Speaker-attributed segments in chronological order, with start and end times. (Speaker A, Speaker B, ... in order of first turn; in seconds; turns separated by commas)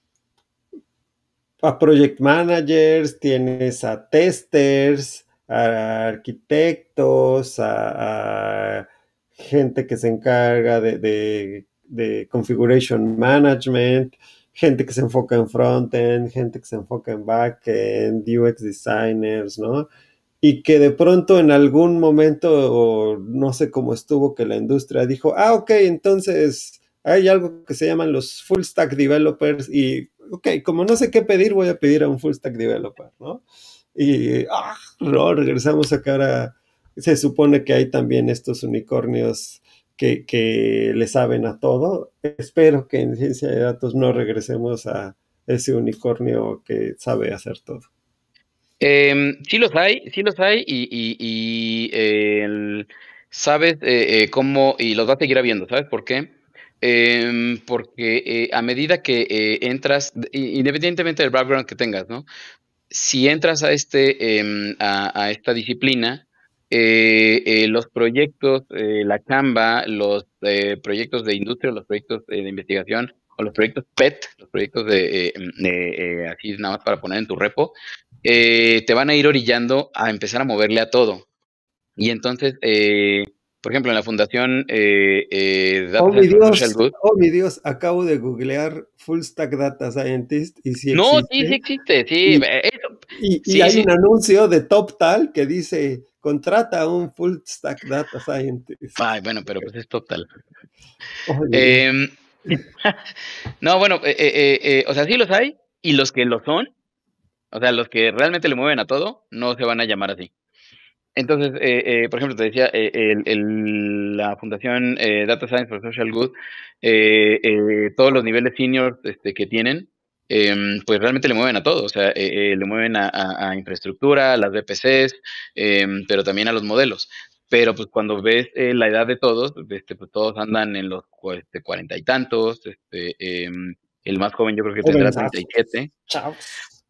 Speaker A: 1.6-19.9, Speaker A: 20.4-33.4, Speaker A: 33.9-47.9, Speaker B: 48.8-62.2, Speaker B: 62.9-81.2, Speaker B: 82.0-86.9, Speaker A: 86.0-91.6, Speaker B: 90.9-93.9, Speaker A: 93.1-99.0, Speaker B: 99.0-100.3, Speaker A: 101.3-101.8, Speaker B: 101.5-102.9, Speaker B: 103.6-106.7, Speaker B: 107.5-110.3, Speaker B: 111.2-135.9, Speaker A: 134.8-136.4